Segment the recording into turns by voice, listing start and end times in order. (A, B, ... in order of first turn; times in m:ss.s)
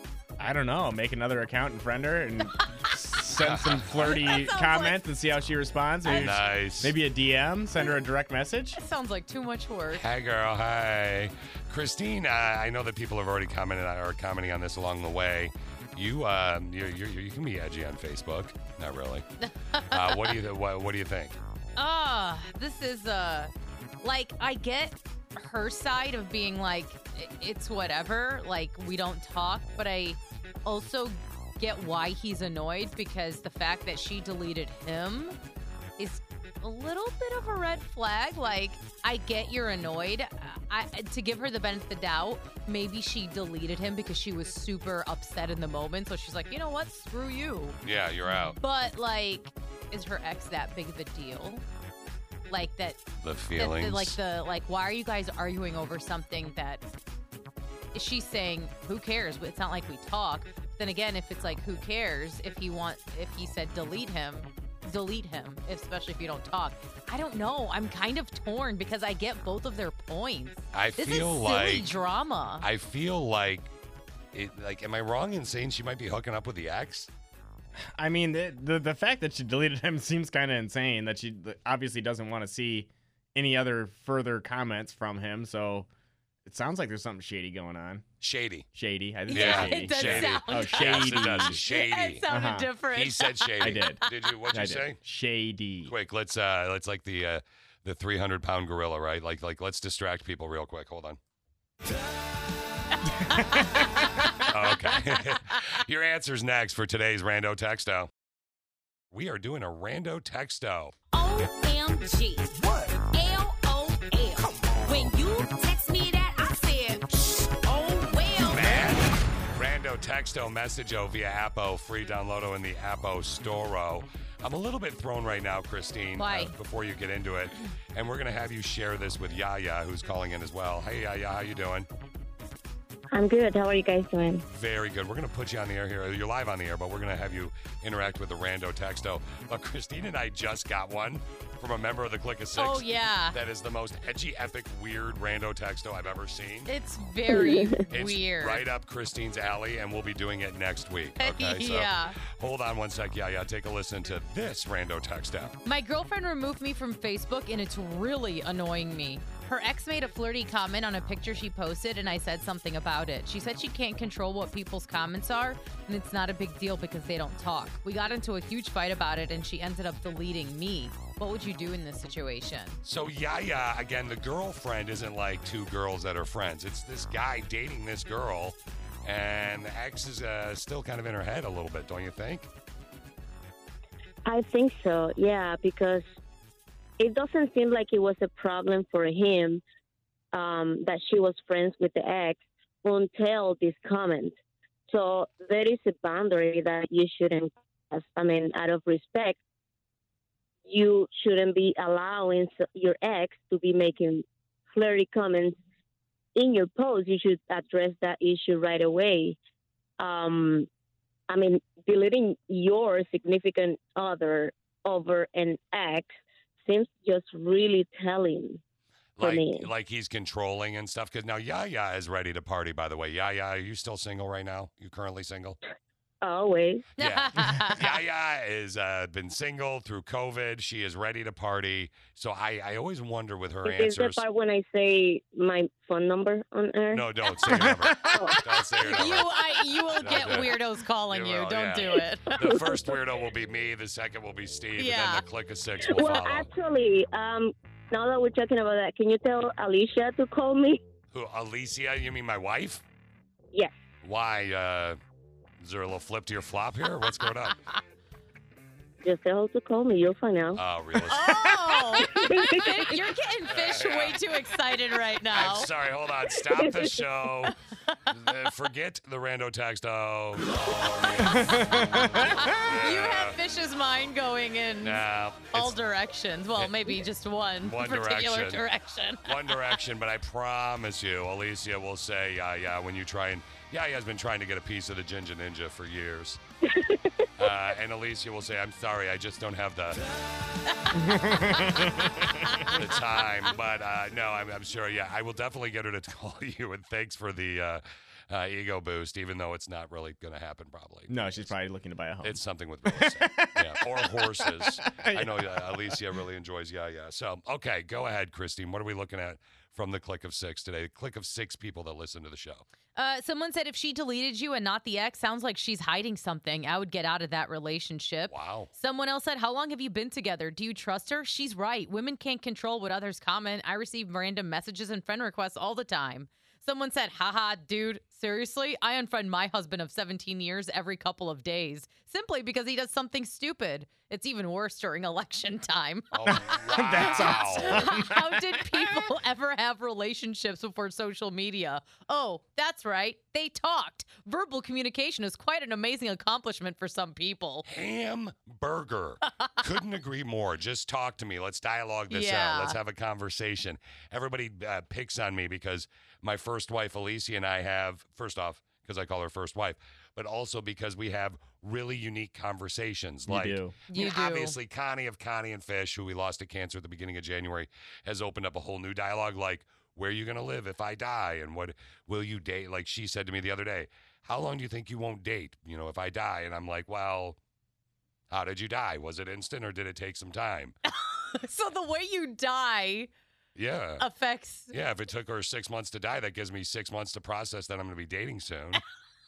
0:00.4-0:08.8 A
0:03.4-0:04.2 B
0:04.0-0:05.0 C
0:06.0-0:06.3 C
0:06.1-0:06.9 B
0:08.8-0:10.0 C
0:09.9-0:19.2 B
0:19.4-0:20.4 C
0:19.9-0:21.4 B
0:21.8-0:35.4 C
0:36.0-0:51.6 C
0:47.8-0:48.6 B
0:52.5-0:53.0 C
0:53.2-0:54.2 B
0:53.6-0:56.8 C
0:57.9-1:12.6 C
1:10.7-1:11.9 B
1:12.6-1:13.7 B
1:14.3-1:17.1 B
1:17.8-1:25.9 A
1:26.4-1:28.0 A
1:28.2-1:28.6 B
1:28.7-1:31.6 A
1:29.3-1:33.3 C
1:29.3-1:32.2 B
1:32.3-1:32.7 A
1:32.9-1:35.0 B
1:33.6-1:35.9 A
1:35.8-1:41.2 B
1:43.4-1:43.6 C
1:44.5-1:48.1 B
1:49.1-1:51.0 B
1:51.1-1:52.6 D
1:53.1-1:58.6 D
1:58.4-2:11.9 B
2:06.2-2:06.5 C
2:13.1-2:14.4 E
2:14.4-2:26.7 B
2:22.6-2:23.3 C
2:26.7-2:28.6 C
2:27.3-2:27.8 E
2:27.9-2:35.6 B
2:31.2-2:32.2 C
2:35.6-2:52.8 C
2:52.8-3:02.5 B
3:04.2-3:06.1 E
3:07.0-3:09.6 E
3:10.3-3:14.3 E
3:14.9-3:19.4 E
3:20.6-3:25.6 E
3:26.4-3:29.4 E
3:30.0-3:30.7 E
3:31.3-3:38.6 E
3:39.2-3:45.6 B
3:39.2-3:39.7 E
3:46.2-3:46.8 E
3:47.0-3:47.9 C
3:47.0-3:54.2 B
3:53.6-3:57.0 E
3:56.9-3:59.4 B
3:57.5-3:58.4 A
3:58.8-4:02.5 C
4:00.0-4:00.6 B
4:01.1-4:06.5 B
4:02.4-4:02.8 E
4:04.8-4:05.2 C
4:05.9-4:10.8 E
4:11.1-4:12.8 B
4:14.0-4:15.0 B
4:15.6-4:17.6 B
4:19.0-4:20.6 E
4:20.6-4:21.3 B
4:21.1-4:25.7 C
4:22.0-4:23.0 E
4:23.5-4:24.2 B
4:25.3-4:27.5 B
4:26.5-4:27.0 E
4:28.1-4:33.4 B
4:31.2-4:32.6 A
4:32.2-4:35.0 C
4:34.8-4:35.8 B
4:35.5-4:39.3 C
4:36.6-4:36.9 B
4:37.6-4:38.6 B
4:39.2-4:46.4 B
4:46.7-4:47.0 E
4:47.4-4:50.0 B
4:50.9-4:52.5 A
4:52.7-5:01.5 B
5:01.1-5:06.0 A
5:02.2-5:12.6 B
5:13.0-5:47.6 C
5:18.3-5:18.7 B
5:36.1-5:37.9 B
5:36.3-5:38.8 A
5:47.6-6:17.4 B
5:52.1-5:52.8 C
6:03.3-6:03.8 A
6:03.9-6:04.6 C
6:18.3-6:20.7 B
6:20.9-6:23.1 C
6:23.6-6:24.0 B
6:24.0-6:24.7 C
6:24.7-6:28.8 B